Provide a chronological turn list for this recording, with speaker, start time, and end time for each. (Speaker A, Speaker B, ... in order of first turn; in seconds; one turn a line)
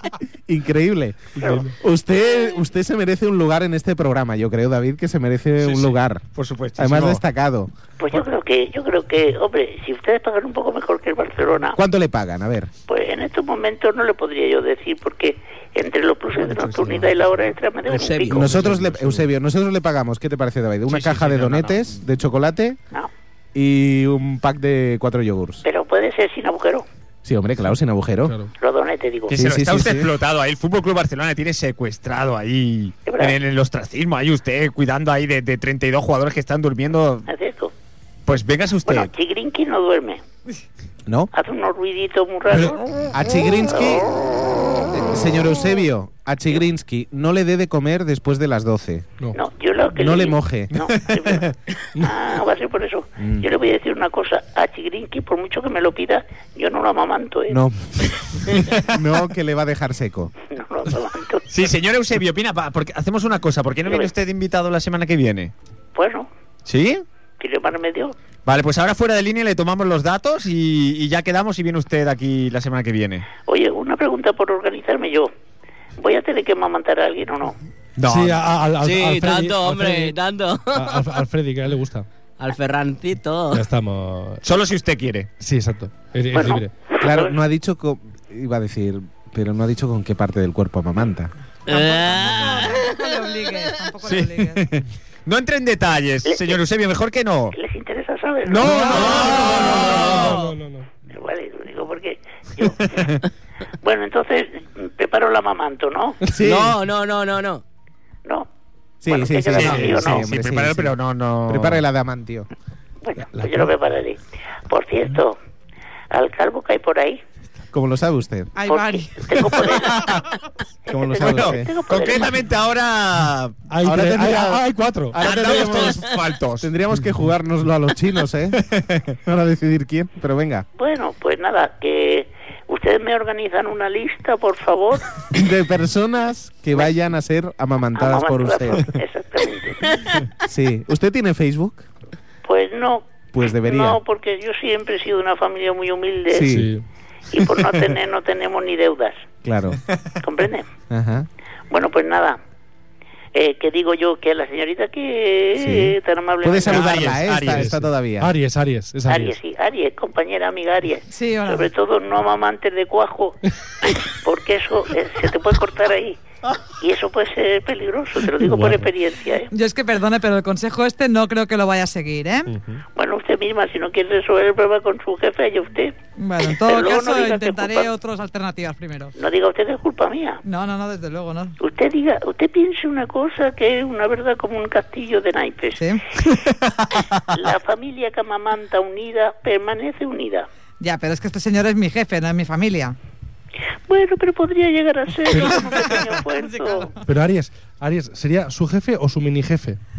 Speaker A: 0.5-6.2
Speaker B: 1.4-1.7
Speaker C: 1.4-1.7
Speaker D: 5.6-7.2
Speaker A: 6.8-7.7
Speaker B: 8.0-11.8
Speaker A: 11.8-12.7
Speaker B: 12.9-18.4
Speaker C: 16.5-17.0
Speaker E: 17.9-18.9
Speaker A: 18.3-22.8
Speaker C: 18.5-19.2
Speaker D: 20.9-21.9
Speaker A: 23.5-25.6
Speaker B: 25.6-26.9
Speaker A: 27.2-28.4
Speaker B: 28.6-29.4
Speaker A: 29.3-30.1
Speaker D: 29.3-37.3
Speaker B: 33.0-33.4
Speaker B: 37.3-37.7
Speaker D: 38.3-39.1
Speaker B: 38.9-40.2
Speaker A: 41.0-41.3
Speaker B: 41.3-42.8
Speaker A: 43.1-44.1
Speaker A: 44.9-49.1
Speaker B: 49.3-57.6
Speaker A: 49.9-50.7
Speaker D: 50.7-51.5
Speaker A: 53.2-53.5
Speaker A: 57.5-58.1
Speaker D: 58.5-59.0
Speaker A: 58.8-60.3
Speaker B: 60.5-61.5
Speaker D: 61.5-65.5
Speaker B: 63.8-64.1
Speaker B: 65.9-66.3
Speaker D: 66.7-67.0
Speaker B: 67.4-68.2
Speaker D: 68.5-73.3
Speaker B: 73.5-75.3
Speaker B: 76.0-77.6
Speaker D: 78.0-78.4
Speaker C: 78.0-80.2
Speaker E: 78.8-81.2
Speaker C: 80.7-82.1
Speaker E: 82.4-83.7
Speaker C: 83.5-84.4
Speaker D: 84.4-85.3
Speaker C: 85.4-86.7
Speaker B: 86.3-87.4
Speaker A: 87.0-91.3
Speaker E: 91.7-93.7
Speaker F: 91.7-94.7
Speaker D: 94.0-97.6
Speaker B: 96.2-96.6
Speaker B: 97.5-99.3
Speaker A: 98.5-100.3
Speaker D: 98.9-99.8
Speaker E: 99.0-100.6
Speaker C: 99.3-100.9
Speaker B: 101.1-103.2
Speaker B: 103.8-106.2
Speaker A: 106.3-106.8
Speaker E: 106.3-107.6
Speaker A: 109.0-111.0
Speaker B: 109.0-110.2
Speaker D: 109.5-111.8
Speaker A: 111.5-112.5
Speaker B: 113.0-115.4
Speaker C: 113.3-113.7
Speaker B: 116.1-117.2
Speaker A: 117.7-118.5
Speaker F: 118.5-119.4
Speaker B: 118.6-120.2
Speaker D: 119.9-120.2
Speaker A: 120.9-121.7
Speaker B: 120.9-122.4
Speaker D: 121.2-123.6
Speaker C: 123.7-125.2
Speaker A: 123.8-128.6
Speaker D: 125.2-126.7
Speaker D: 128.6-129.0
Speaker A: 129.2-130.7
Speaker B: 130.8-135.2
Speaker A: 135.3-138.9
Speaker B: 137.9-140.1
Speaker A: 140.4-141.9
Speaker B: 142.4-146.6
Speaker A: 143.3-144.0
Speaker A: 146.3-146.7
Speaker C: 146.5-146.8
Speaker B: 147.3-149.2
Speaker A: 149.4-149.8
Speaker B: 150.2-150.7
Speaker A: 150.9-151.3
Speaker B: 151.7-152.4
Speaker B: 153.3-157.1
Speaker A: 155.6-158.3
Speaker D: 156.7-157.7
Speaker C: 157.4-159.3
Speaker A: 158.9-159.3
Speaker B: 159.1-166.2
Speaker F: 161.1-161.7
Speaker B: 166.8-169.5
Speaker C: 168.3-168.9
Speaker F: 169.5-172.5
Speaker C: 172.5-172.8
Speaker B: 172.9-175.9
Speaker F: 176.2-179.1
Speaker B: 176.5-177.9
Speaker B: 179.2-180.4
Speaker F: 180.4-181.5
Speaker B: 181.6-186.3
Speaker F: 185.8-186.0
Speaker B: 187.3-190.5
Speaker F: 190.8-192.9
Speaker B: 193.9-196.9
Speaker C: 195.3-196.0
Speaker F: 196.3-196.9
Speaker C: 197.0-199.8